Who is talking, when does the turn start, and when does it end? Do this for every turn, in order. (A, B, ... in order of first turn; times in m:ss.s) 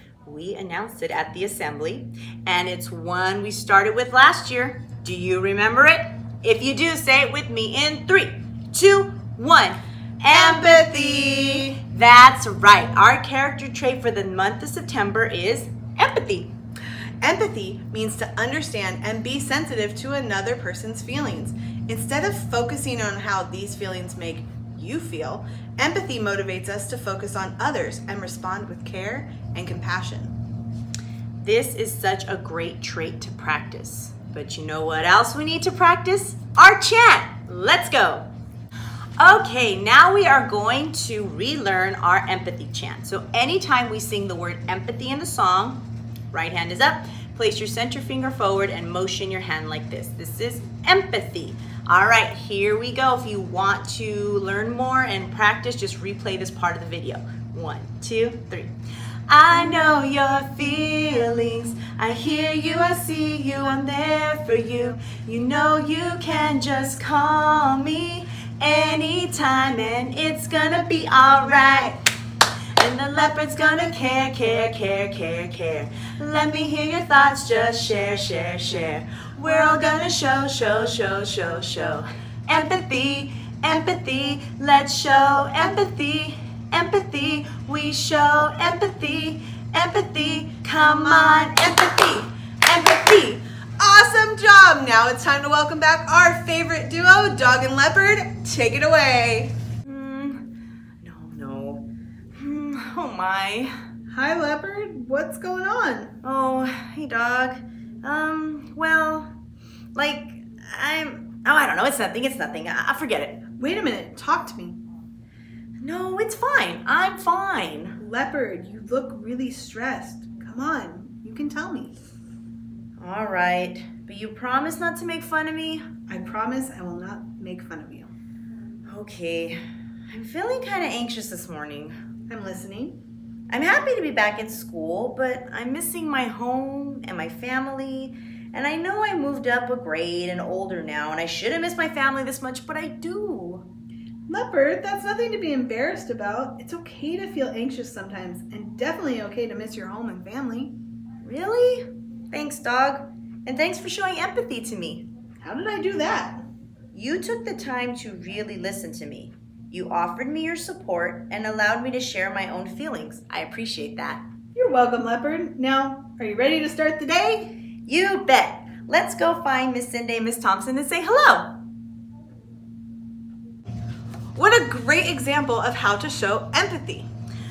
0:00.2-0:16.5 A
0:10.3-0:11.7 B
0:17.2-0:30.3 B
0:31.4-0:38.2 A
0:39.2-0:45.8 A
0:46.3-0:58.7 A
0:59.3-1:12.0 A
1:12.8-1:33.4 A
1:33.8-1:39.5 B
1:39.8-1:40.4 A
1:41.0-1:41.8 A
1:42.4-1:43.7 A
1:44.1-1:46.1 B
1:46.2-1:49.3 A
1:49.9-1:53.4 A
1:53.6-1:54.8 B
1:55.8-1:58.0 A
1:58.0-2:01.9 B
2:03.0-2:05.8 A
2:06.1-2:08.1 B
2:08.9-2:09.6 A
2:10.1-2:11.9 A
2:12.3-2:13.0 B
2:13.5-2:23.6 A
2:24.3-2:30.7 B
2:31.2-2:35.0 A
2:35.4-2:36.4 B
2:36.9-2:44.2 A
2:44.5-2:47.5 B
2:47.8-2:51.5 A
2:54.3-2:57.1 B